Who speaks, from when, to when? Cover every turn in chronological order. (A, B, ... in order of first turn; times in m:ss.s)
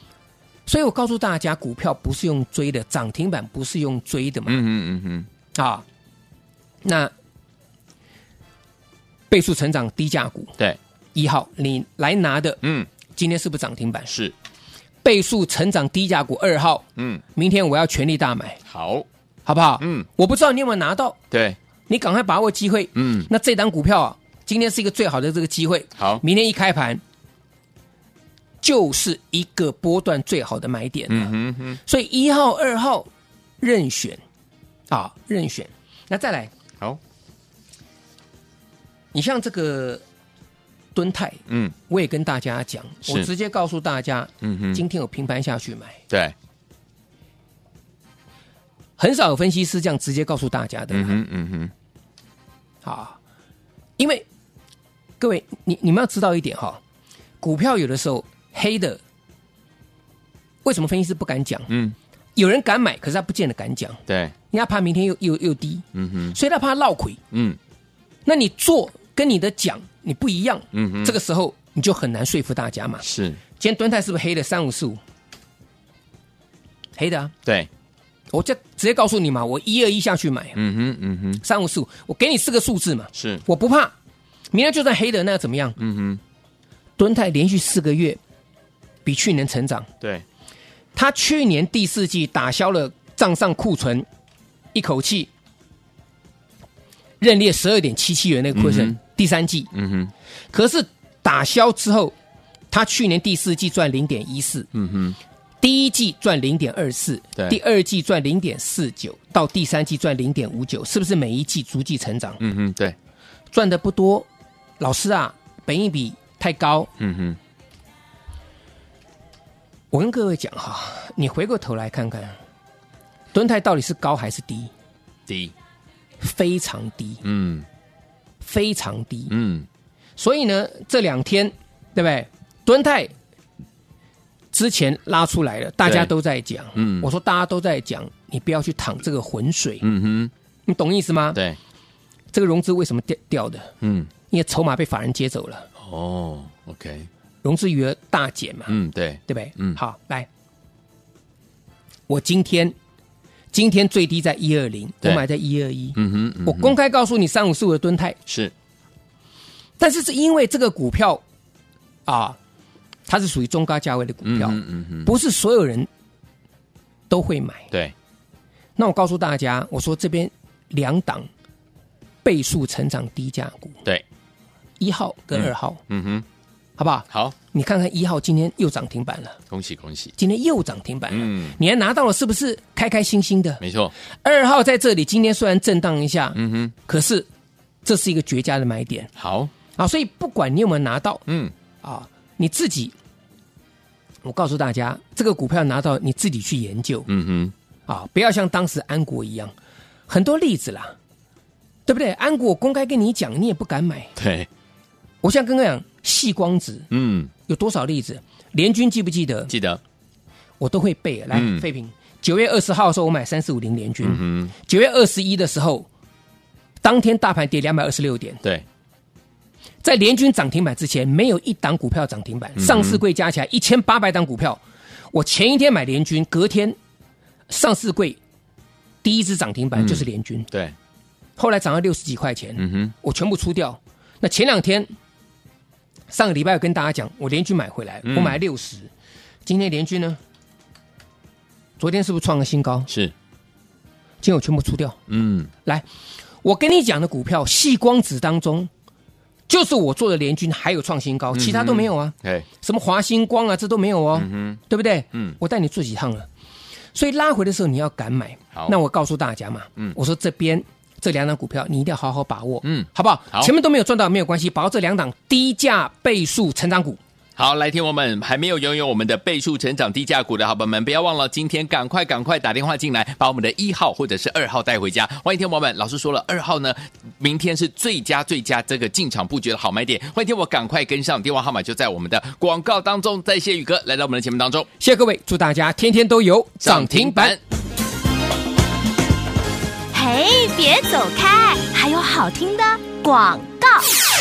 0:00.7-0:04.6 A
0:04.5-0:05.3 B
0:05.6-0:05.8 A
0:06.8-0:07.1 A
0:09.3-0:10.5 A
0:11.2-0:12.6 A
0:12.6-0:12.9 B
0:13.2-0:14.1 A
0:15.0-0:18.6 A
0:17.0-0:17.2 B
0:18.7-0:19.1 B
0:19.5-0:21.2 A
0:19.8-0:20.1 B
0:21.3-0:21.6 B
0:21.9-0:27.0 A
0:23.0-0:23.3 B
0:26.0-0:26.2 B
0:28.6-0:31.3 A
0:31.1-0:31.8 B
0:31.8-0:33.1 A
0:33.6-0:34.2 A
0:34.9-0:36.5 A
0:39.1-0:40.0 A
0:41.0-0:46.0 A
0:41.5-0:41.8 B
0:44.4-0:44.8 B
0:46.1-0:46.4 B
0:49.0-0:51.2 A
0:50.9-0:51.7 B
0:52.8-0:53.2 A
0:54.0-0:54.3 A
0:55.2-0:56.8 A
0:57.4-0:59.0 A
1:00.6-1:01.7 A
1:01.7-1:02.0 B
1:02.4-1:07.2 A
1:04.1-1:04.3 B
1:05.9-1:06.4 B
1:07.3-1:07.6 B
1:08.2-1:13.0 A
1:10.7-1:11.2 B
1:13.0-1:13.4 B
1:13.6-1:15.0 A
1:17.0-1:17.3 A
1:18.3-1:20.6 A
1:20.6-1:21.4 B
1:21.4-1:23.9 A
1:23.2-1:23.4 B
1:24.5-1:25.8 A
1:25.8-1:26.2 B
1:27.0-1:28.2 A
1:29.0-1:29.9 A
1:31.0-1:34.1 A
1:34.7-1:35.3 A
1:37.2-1:39.7 A
1:38.6-1:39.0 B
1:39.7-1:40.1 B
1:40.5-1:42.2 A
1:42.7-1:44.7 A
1:44.7-1:45.2 B
1:45.6-1:52.4 A
1:52.4-1:53.0 B
1:53.5-1:54.3 A
1:54.8-1:56.9 A
1:57.0-1:57.4 B
1:59.9-2:02.4 A
2:03.3-2:04.7 A
2:05.3-2:05.5 B
2:06.2-2:07.2 A
2:07.2-2:07.7 B
2:08.4-2:09.3 A
2:09.3-2:09.7 B
2:10.2-2:13.1 A
2:14.5-2:19.8 A
2:15.8-2:16.1 B
2:16.8-2:17.1 B
2:19.8-2:20.3 B
2:20.7-2:21.4 A
2:22.3-2:23.7 A
2:23.8-2:24.1 B
2:24.3-2:25.7 A
2:25.8-2:27.1 B
2:27.4-2:28.7 A
2:28.7-2:29.8 B
2:29.3-2:30.3 A
2:32.1-2:32.8 A
2:33.5-2:38.2 A
2:36.0-2:36.8 B
2:38.3-2:38.5 B
2:39.8-2:41.2 A
2:42.1-2:42.4 A
2:43.1-2:45.9 A
2:44.2-2:45.1 B
2:47.1-2:47.7 A
2:48.8-2:51.3 A
2:52.2-2:53.8 A
2:54.8-2:55.8 A
2:55.3-2:56.2 B
2:56.8-2:59.4 A
2:59.5-3:00.1 B
3:00.2-3:03.6 A
3:01.1-3:01.6 B
3:03.6-3:03.9 B
3:04.2-3:07.3 A
3:06.4-3:06.8 B
3:07.8-3:09.1 A
3:09.2-3:09.5 B
3:09.8-3:11.2 A
3:11.3-3:11.5 B
3:11.8-3:13.0 A
3:14.2-3:17.1 A
3:17.1-3:17.5 B
3:17.9-3:19.5 A
3:20.1-3:21.0 A
3:21.9-3:24.1 A
3:24.2-3:24.5 B
3:25.2-3:26.9 A
3:26.9-3:27.3 B
3:27.5-3:29.5 A
3:29.5-3:29.8 B
3:30.6-3:35.9 A
3:31.3-3:31.7 B
3:34.0-3:34.5 B
3:36.8-3:38.4 A
3:39.8-3:44.6 A
3:42.6-3:43.0 B
3:45.1-3:46.8 A
3:47.5-3:48.2 A
3:49.0-3:50.5 A
3:49.8-3:50.8 B
3:51.4-3:54.9 A
3:52.6-3:52.9 B
3:56.1-3:58.9 A
3:58.1-3:58.4 B
3:59.5-4:00.2 A
4:01.8-4:02.9 A
4:04.2-4:05.0 A
4:05.1-4:05.5 B
4:06.4-4:08.7 A
4:09.5-4:16.3 A
4:11.3-4:12.5 B
4:14.1-4:14.6 B
4:16.9-4:27.0 A
4:22.6-4:23.5 B
4:27.4-4:44.7 B
4:44.8-4:47.4 A
4:46.6-4:47.4 B
4:49.9-4:53.9 C